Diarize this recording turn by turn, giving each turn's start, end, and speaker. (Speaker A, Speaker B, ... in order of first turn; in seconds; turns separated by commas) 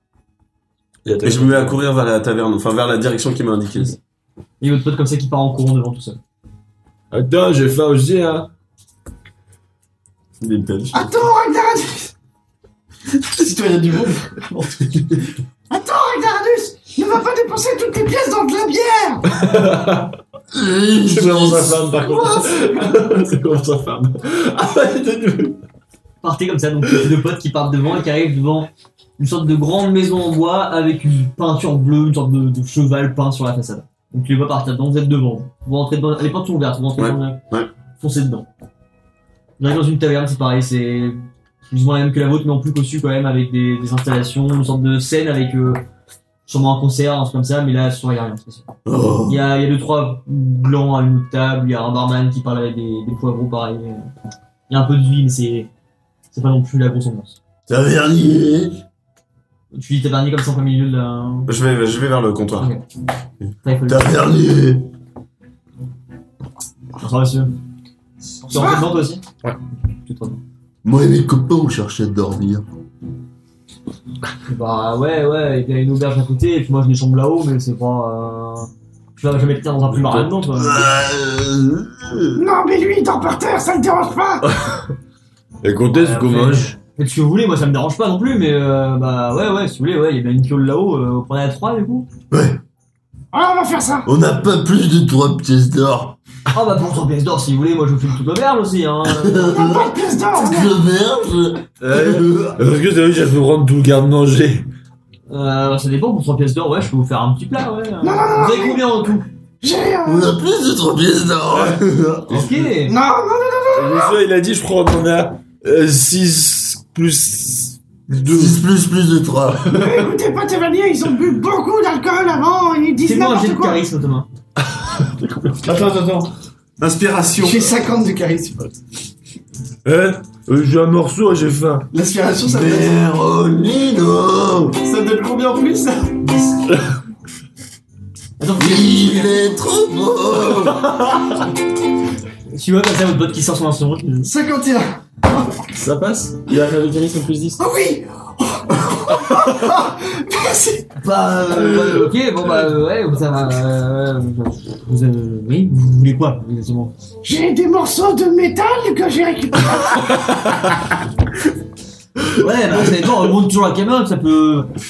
Speaker A: 1.0-1.8, Speaker B: 1.2-4.0, Speaker C: 4.6-6.2, Speaker A: 7.1-8.5, Speaker B: 10.4-11.1, Speaker D: 10.9-12.1, Speaker E: 13.3-15.1, Speaker D: 15.7-19.3, Speaker A: 19.3-20.1, Speaker F: 20.5-21.9, Speaker A: 21.1-25.6, Speaker C: 26.2-37.4, Speaker B: 37.0-37.7, Speaker C: 38.0-38.5, Speaker C: 39.6-45.8, Speaker C: 46.5-48.7, Speaker F: 48.9-49.4, Speaker C: 49.3-54.1, Speaker C: 54.7-55.7, Speaker C: 56.3-57.4, Speaker F: 57.7-58.8, Speaker C: 59.7-61.5, Speaker B: 61.5-62.7, Speaker C: 62.6-62.8, Speaker C: 63.6-64.2, Speaker F: 63.9-64.9, Speaker C: 67.0-67.5, Speaker C: 68.4-69.2, Speaker D: 68.5-68.9, Speaker C: 70.0-70.4, Speaker F: 70.8-72.6, Speaker C: 74.4-80.9, Speaker A: 79.9-80.3, Speaker F: 80.5-82.4, Speaker D: 82.3-84.5, Speaker A: 84.4-84.9, Speaker A: 85.6-86.7, Speaker C: 85.9-92.1, Speaker F: 92.3-92.6, Speaker D: 93.3-94.1, Speaker F: 94.0-96.2, Speaker C: 96.5-99.6, Speaker F: 99.0-102.6, Speaker D: 99.5-100.7, Speaker A: 101.8-104.7, Speaker C: 105.3-109.3, Speaker D: 108.0-108.9, Speaker D: 109.6-110.3, Speaker F: 110.0-112.5, Speaker A: 111.5-112.7, Speaker C: 112.3-113.0, Speaker D: 112.8-114.2, Speaker A: 113.7-118.6, Speaker F: 118.3-119.7, Speaker D: 119.7-123.8, Speaker C: 123.0-124.3, Speaker A: 124.8-125.9, Speaker E: 125.7-126.3, Speaker B: 126.8-127.7, Speaker E: 127.4-128.7, Speaker A: 129.8-131.9, Speaker E: 131.9-132.9, Speaker F: 132.4-134.8, Speaker E: 134.8-136.3, Speaker C: 136.2-136.6, Speaker C: 138.4-139.4, Speaker F: 138.6-140.8, Speaker C: 142.5-144.3, Speaker E: 144.2-145.0, Speaker C: 145.7-147.6, Speaker D: 147.6-150.9, Speaker C: 151.0-156.9, Speaker D: 157.2-160.1, Speaker C: 162.3-164.7